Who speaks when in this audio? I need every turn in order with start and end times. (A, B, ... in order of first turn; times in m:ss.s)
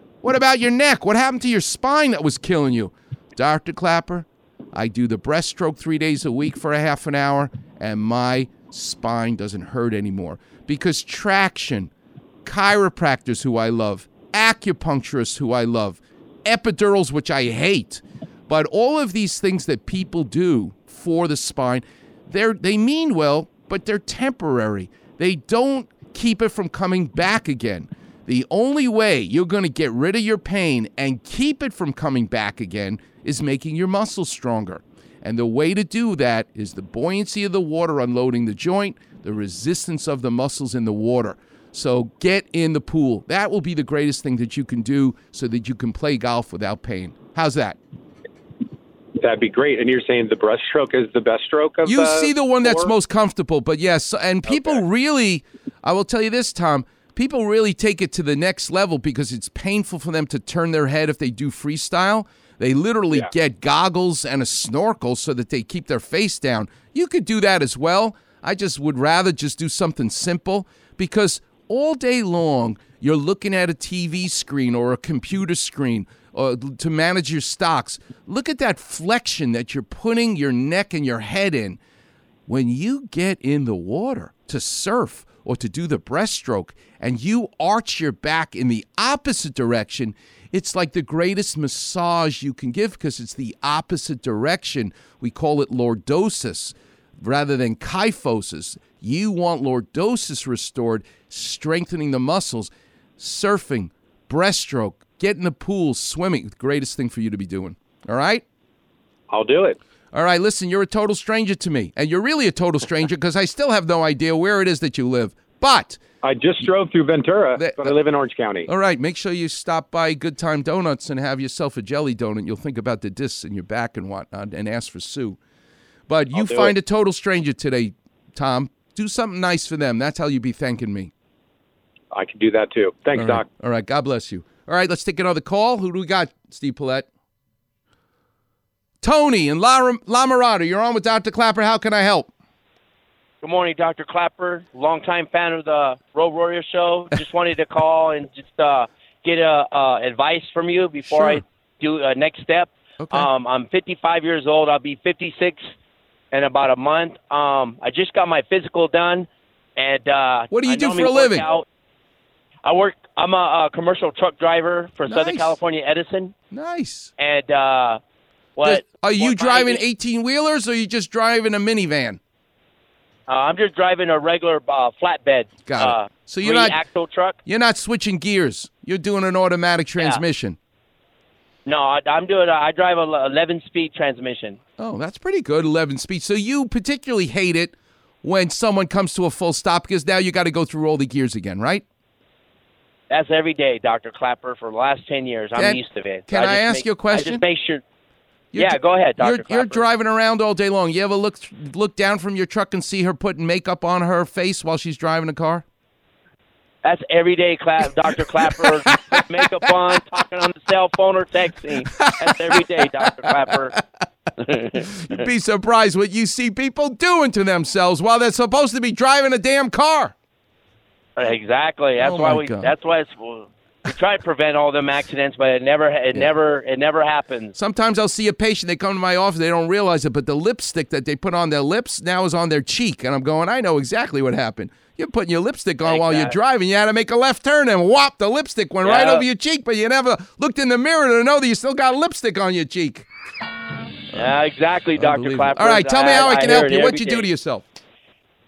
0:00.2-0:11.9 A
0:12.4-0:47.8 A
0:49.2-0:52.9 B
0:51.8-1:21.8 A
0:54.4-0:54.8 B
1:22.5-1:48.4 A
1:49.3-1:49.8 B
1:50.1-1:56.0 A
1:56.2-1:58.7 B
1:57.6-1:58.0 A
1:58.6-2:05.4 A
2:06.1-2:11.1 A
2:06.3-2:06.7 B
2:12.1-2:13.4 B
2:13.1-2:17.1 A
2:19.0-2:22.3 A
2:23.4-2:35.6 C
2:31.1-2:31.4 A
2:33.0-2:33.3 A
2:36.3-2:41.6 C
2:40.5-2:41.4 A
2:42.6-2:46.3 C
2:45.0-2:45.6 A
2:46.5-2:47.1 A
2:47.2-2:48.0 C
2:48.6-2:49.8 C
2:48.6-2:52.2 A
2:53.3-2:57.4 C
2:55.6-2:56.8 A
2:57.4-3:00.6 A
3:01.6-3:04.6 C
3:04.8-3:11.8 A
3:13.1-3:17.8 C
3:15.5-3:17.4 A
3:18.5-3:25.6 A
3:18.6-3:19.8 C
3:26.8-3:33.7 C
3:28.1-3:29.7 A
3:31.8-3:33.8 A
3:34.4-3:34.8 C
3:34.7-3:40.1 A
3:41.2-3:47.5 C
3:42.0-3:42.7 A
3:47.5-4:03.0 A
3:55.8-3:56.3 C
3:58.8-3:59.2 C
4:04.1-4:04.4 A
4:04.1-4:07.3 C
4:04.9-4:07.6 A